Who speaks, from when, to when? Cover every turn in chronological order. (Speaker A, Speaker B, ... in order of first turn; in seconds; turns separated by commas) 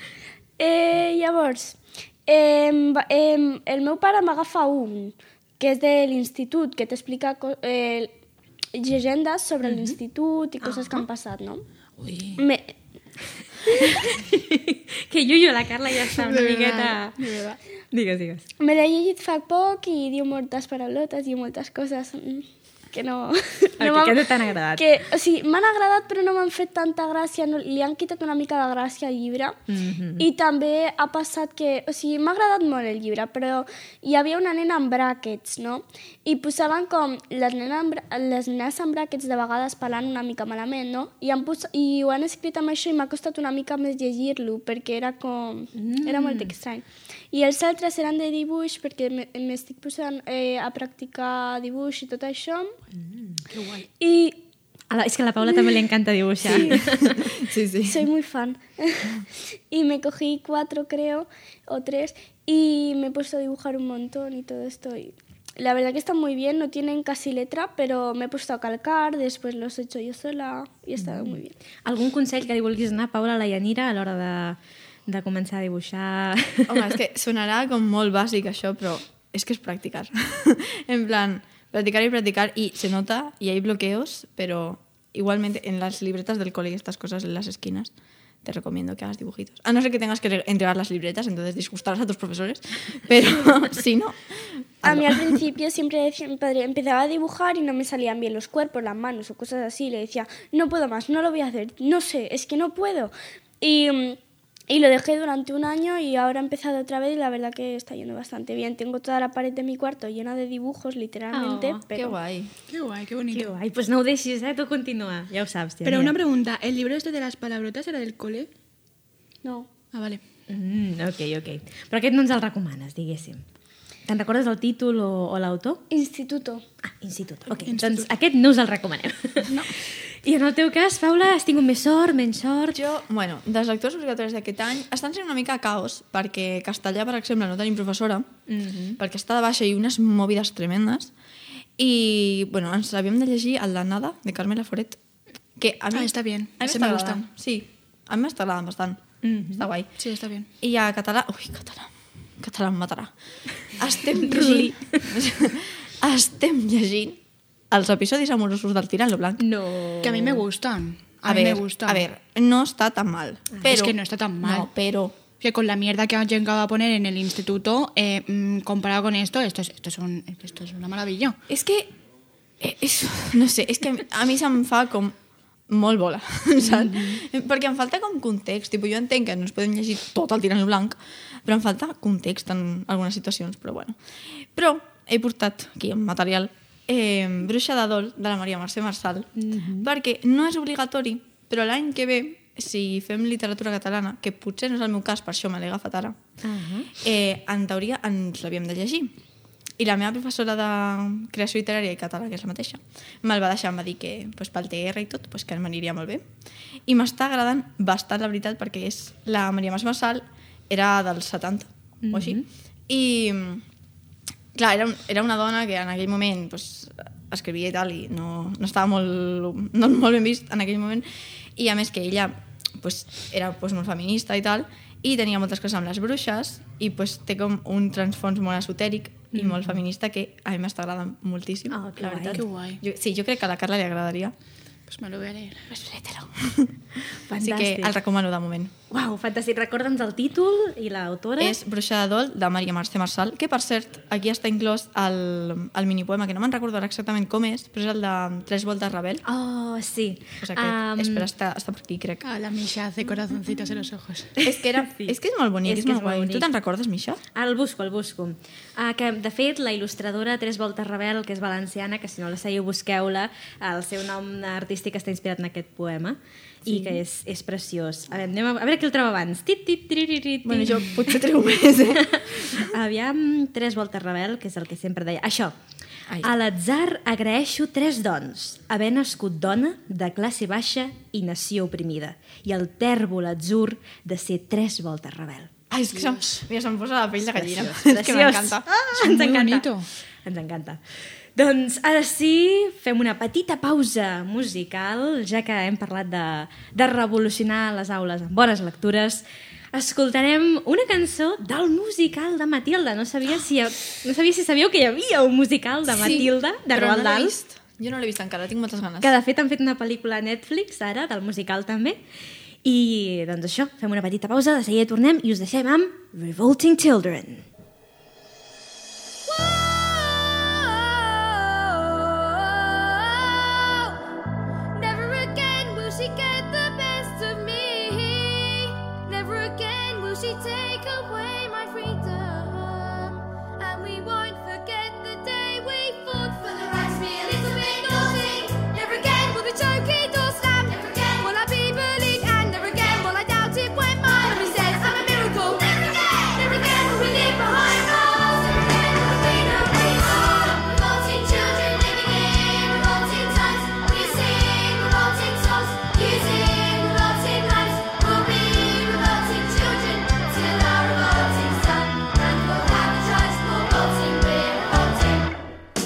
Speaker A: 0.6-8.1, Speaker A: 8.7-11.6, Speaker B: 9.6-10.0, Speaker B: 10.6-11.1, Speaker C: 12.0-12.4, Speaker A: 12.4-12.7, Speaker A: 13.7-14.0, Speaker B: 13.8-17.2, Speaker C: 16.1-17.6, Speaker B: 17.9-18.5, Speaker A: 18.6-29.6, Speaker B: 23.8-24.9, Speaker B: 29.7-30.3, Speaker A: 30.2-52.7, Speaker B: 45.8-46.5, Speaker C: 53.5-53.9, Speaker A: 54.0-54.4, Speaker B: 54.9-57.2, Speaker A: 56.5-56.8, Speaker D: 56.5-58.1, Speaker A: 57.9-71.5, Speaker B: 71.0-76.9, Speaker D: 76.7-87.9, Speaker D: 88.4-95.4, Speaker A: 94.8-112.2, Speaker B: 111.3-111.8, Speaker D: 111.9-112.5, Speaker C: 112.7-113.5, Speaker B: 113.3-116.2, Speaker C: 115.8-118.5, Speaker A: 119.4-119.7, Speaker C: 119.9-120.2, Speaker B: 120.5-123.4, Speaker B: 124.1-125.8, Speaker A: 125.9-126.6, Speaker B: 126.8-129.7, Speaker C: 127.5-128.1, Speaker B: 130.2-132.8, Speaker D: 132.7-141.1, Speaker B: 138.5-138.8, Speaker D: 141.8-145.0, Speaker D: 145.6-149.9, Speaker C: 145.9-147.2, Speaker B: 149.2-149.7, Speaker C: 150.0-150.5, Speaker D: 150.6-153.1, Speaker D: 153.8-157.2, Speaker B: 154.2-155.1, Speaker D: 157.7-159.5, Speaker B: 159.4-160.4, Speaker C: 160.0-162.1, Speaker D: 161.3-165.2, Speaker C: 163.6-164.7, Speaker C: 165.4-171.4, Speaker D: 171.5-171.9, Speaker D: 172.6-175.2, Speaker D: 175.7-184.0, Speaker B: 176.7-177.2, Speaker D: 184.5-196.2, Speaker B: 189.4-189.9, Speaker B: 196.4-196.9, Speaker D: 196.9-199.1, Speaker D: 199.8-206.3, Speaker D: 206.9-213.7, Speaker B: 212.0-212.4, Speaker D: 214.6-234.3, Speaker B: 229.3-229.8, Speaker B: 231.7-232.4, Speaker C: 232.3-232.8, Speaker C: 234.9-235.8, Speaker D: 235.7-236.8, Speaker B: 237.3-238.0, Speaker D: 237.3-238.7, Speaker B: 238.9-241.6, Speaker D: 241.4-249.2, Speaker B: 249.3-251.3, Speaker D: 250.4-252.2, Speaker C: 252.2-254.4, Speaker D: 254.4-257.2, Speaker B: 254.4-256.5, Speaker B: 257.4-271.0, Speaker D: 266.7-267.0, Speaker D: 270.4-272.7, Speaker B: 272.0-275.6, Speaker B: 276.2-285.5, Speaker D: 285.7-288.7, Speaker B: 287.4-289.7, Speaker C: 289.0-289.9, Speaker B: 290.2-290.8, Speaker B: 291.4-307.3, Speaker D: 305.9-309.2, Speaker B: 309.0-312.0, Speaker B: 312.6-317.5, Speaker E: 319.3-324.0, Speaker E: 324.7-365.3